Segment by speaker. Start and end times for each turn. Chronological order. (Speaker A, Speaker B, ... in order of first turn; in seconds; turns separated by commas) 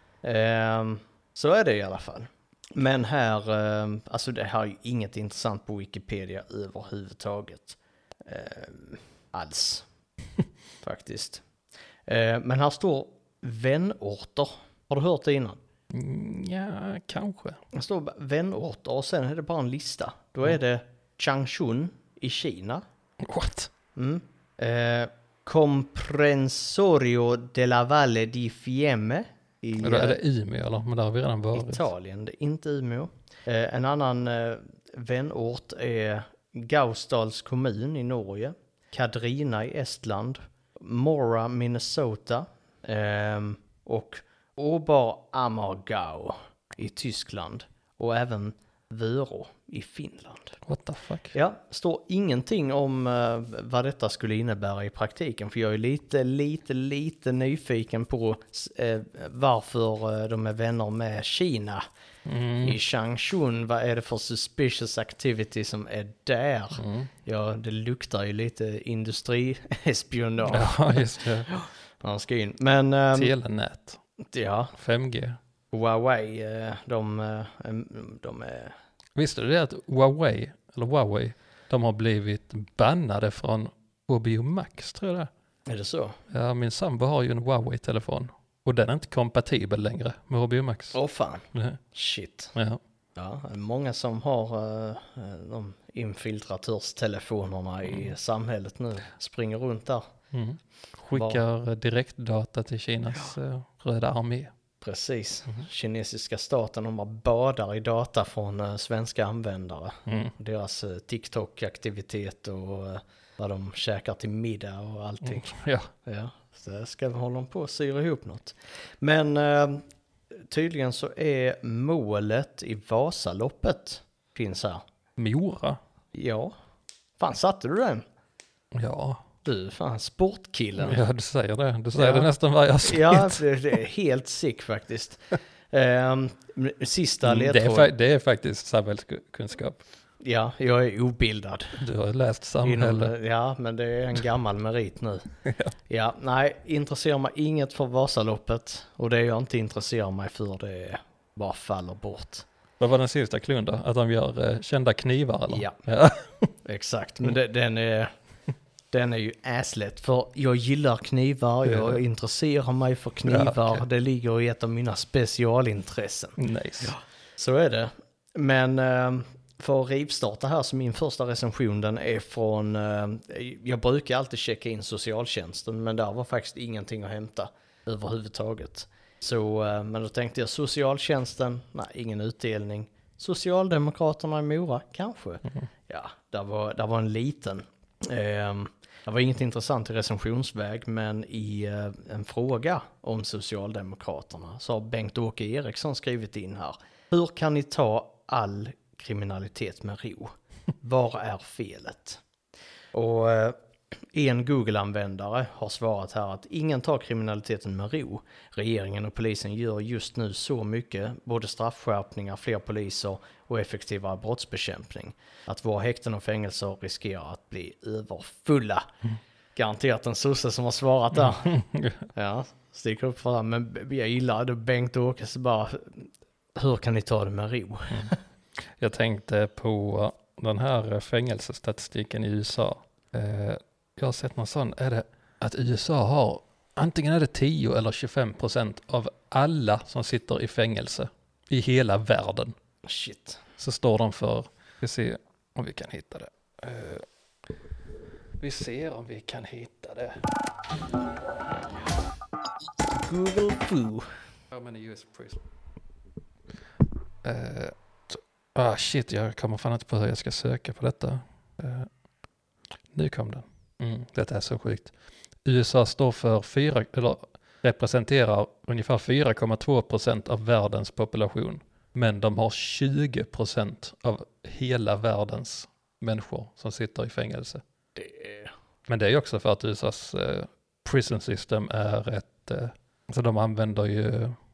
Speaker A: 0.2-9.9, Speaker A: 10.8-11.4, Speaker A: 12.1-15.6, Speaker B: 15.9-17.6, Speaker A: 17.7-22.8, Speaker B: 23.2-23.7, Speaker A: 23.9-30.2, Speaker B: 29.8-31.9, Speaker A: 31.5-50.6, Speaker B: 50.6-51.4, Speaker A: 51.3-61.8, Speaker B: 62.3-62.8, Speaker A: 62.6-73.3, Speaker B: 66.8-67.1, Speaker B: 70.5-71.5, Speaker B: 73.1-74.0, Speaker A: 74.2-74.7, Speaker B: 74.7-75.4, Speaker A: 75.7-78.8, Speaker B: 79.2-85.3, Speaker A: 85.7-86.2, Speaker B: 86.3-91.0, Speaker A: 90.9-92.5, Speaker B: 91.5-91.8, Speaker B: 92.5-92.8, Speaker A: 93.2-100.0, Speaker B: 100.3-104.5, Speaker A: 101.1-101.4, Speaker A: 104.8-115.5, Speaker B: 110.1-110.3, Speaker B: 115.2-115.9, Speaker A: 116.0-124.8, Speaker B: 125.2-125.8, Speaker A: 126.1-126.5, Speaker A: 127.2-128.1, Speaker B: 128.8-129.2, Speaker A: 129.4-131.0, Speaker B: 130.8-133.4, Speaker A: 132.0-132.3, Speaker A: 132.8-137.9, Speaker B: 137.2-139.8, Speaker A: 140.2-141.8, Speaker B: 141.8-143.1, Speaker A: 142.6-145.2, Speaker B: 145.4-145.7, Speaker A: 145.9-152.5, Speaker B: 152.8-156.5, Speaker A: 155.5-155.8, Speaker A: 156.7-158.1, Speaker A: 158.9-202.2, Speaker B: 161.7-162.0, Speaker B: 163.2-163.8, Speaker B: 166.4-167.0, Speaker A: 202.9-203.6, Speaker A: 204.1-218.9, Speaker A: 219.6-221.5, Speaker B: 221.2-222.1, Speaker A: 222.2-228.2, Speaker B: 228.8-242.6, Speaker A: 242.8-243.4, Speaker B: 243.6-247.1, Speaker B: 248.4-250.2, Speaker A: 252.9-254.1, Speaker B: 254.5-255.4, Speaker B: 257.2-261.9, Speaker B: 262.9-264.9, Speaker B: 265.4-277.6, Speaker A: 278.0-278.5, Speaker B: 278.9-284.4